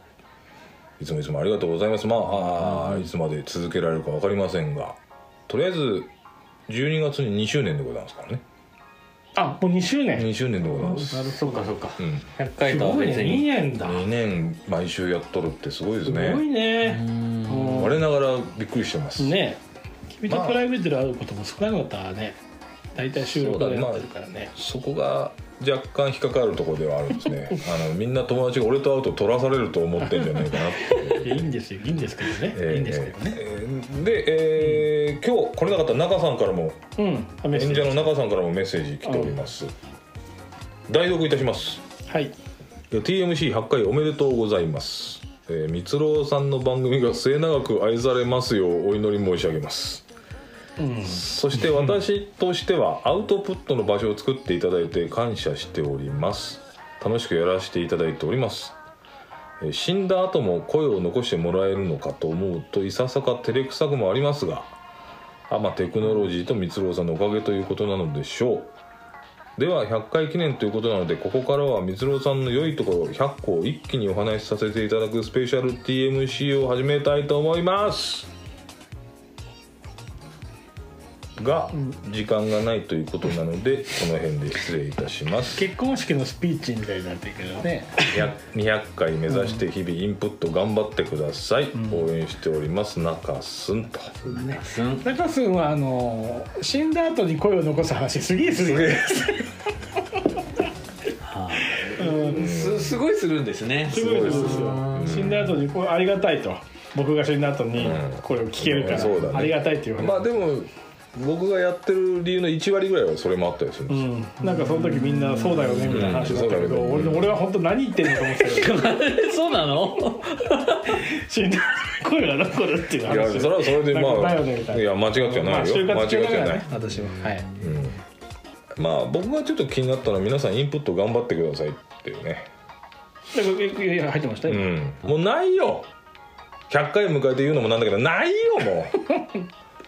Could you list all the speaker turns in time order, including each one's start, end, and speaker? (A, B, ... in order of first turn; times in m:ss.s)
0:01.0-0:06.1 A
0:06.7-0:08.4 A
0:09.4-0:11.7 B
0:10.2-0:11.4 A
0:11.2-0:13.5 C
0:12.0-0:12.3 A
0:12.6-0:14.0 B
0:13.8-0:16.4 A
0:16.0-0:18.0 B
0:16.8-0:17.9 C
0:17.7-0:19.4 A
0:19.2-0:19.6 B
0:20.1-0:22.4 B
0:20.3-0:20.6 A
0:23.0-0:24.5 B
0:23.2-0:31.5 A
0:30.0-0:33.4 B
0:32.5-0:36.8 A
0:37.0-0:38.1 B
0:37.5-0:39.7 A
0:39.0-0:39.4 B
0:40.9-0:41.8 A
0:42.1-0:42.3 B
0:42.9-0:50.1 A
0:50.8-0:51.2 B
0:51.0-0:58.8 A
0:59.6-1:04.7 A
1:05.5-1:08.7 A
1:09.6-1:18.3 A
1:21.4-1:25.7 A
1:25.5-1:28.3 B
1:28.0-1:34.4 A
1:31.8-1:32.0 B
1:34.3-1:39.4 B
1:34.4-1:35.1 C
1:38.6-1:39.5 A
1:41.2-1:45.2 C
1:41.8-1:42.5 B
1:42.3-1:43.0 A
1:43.9-1:50.2 B
1:43.9-1:45.6 A
1:47.8-1:54.1 A
1:53.9-1:58.8 B
1:54.6-1:55.8 C
1:55.8-1:57.4 A
1:58.3-2:01.0 C
2:00.8-2:07.5 B
2:03.0-2:06.7 A
2:07.6-2:08.0 A
2:08.8-2:12.5 A
2:13.3-2:14.7 B
2:14.5-2:15.9 A
2:16.7-2:19.1 A